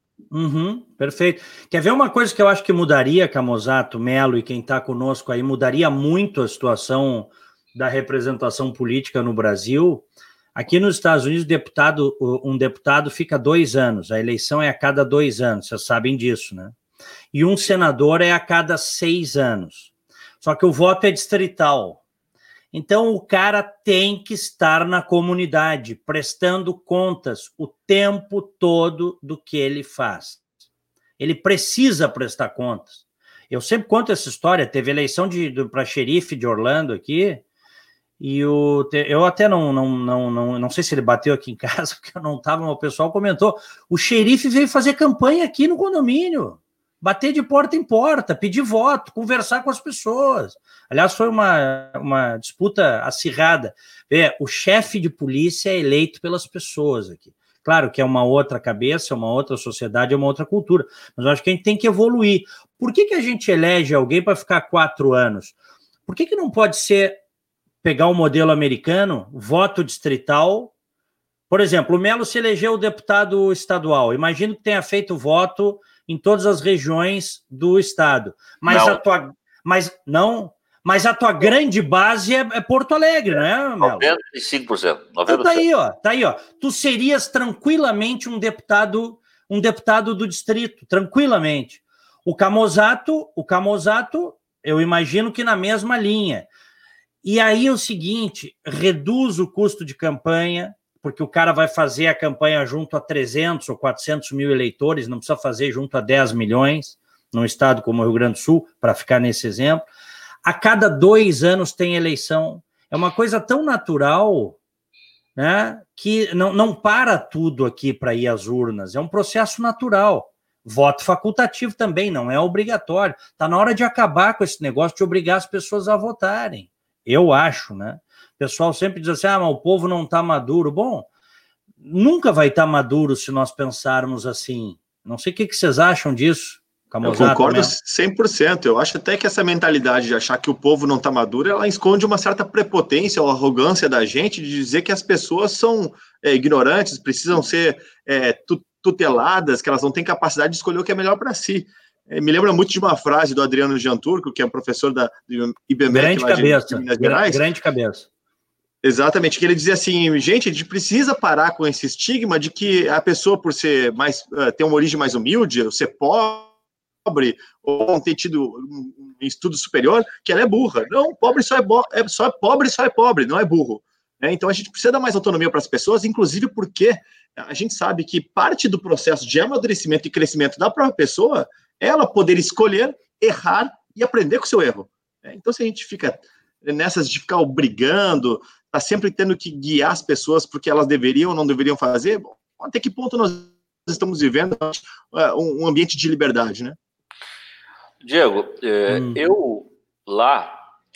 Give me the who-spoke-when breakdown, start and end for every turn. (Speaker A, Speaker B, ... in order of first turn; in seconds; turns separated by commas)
Speaker A: 0.3-16.7, Speaker A: 17.3-19.9, Speaker A: 20.4-22.0, Speaker A: 22.7-30.4, Speaker A: 31.2-37.4, Speaker A: 38.2-65.5, Speaker A: 66.1-67.2, Speaker A: 67.8-70.7, Speaker A: 71.5-84.1, Speaker B: 78.7-79.0, Speaker B: 83.8-85.7, Speaker A: 85.3-96.5, Speaker A: 97.2-109.9, Speaker A: 110.4-114.6, Speaker A: 115.4-131.1, Speaker A: 131.8-137.8, Speaker C: 137.0-157.4, Speaker A: 155.9-158.1, Speaker C: 158.8-166.5, Speaker C: 167.1-196.8, Speaker B: 198.0-200.7, Speaker A: 198.9-199.2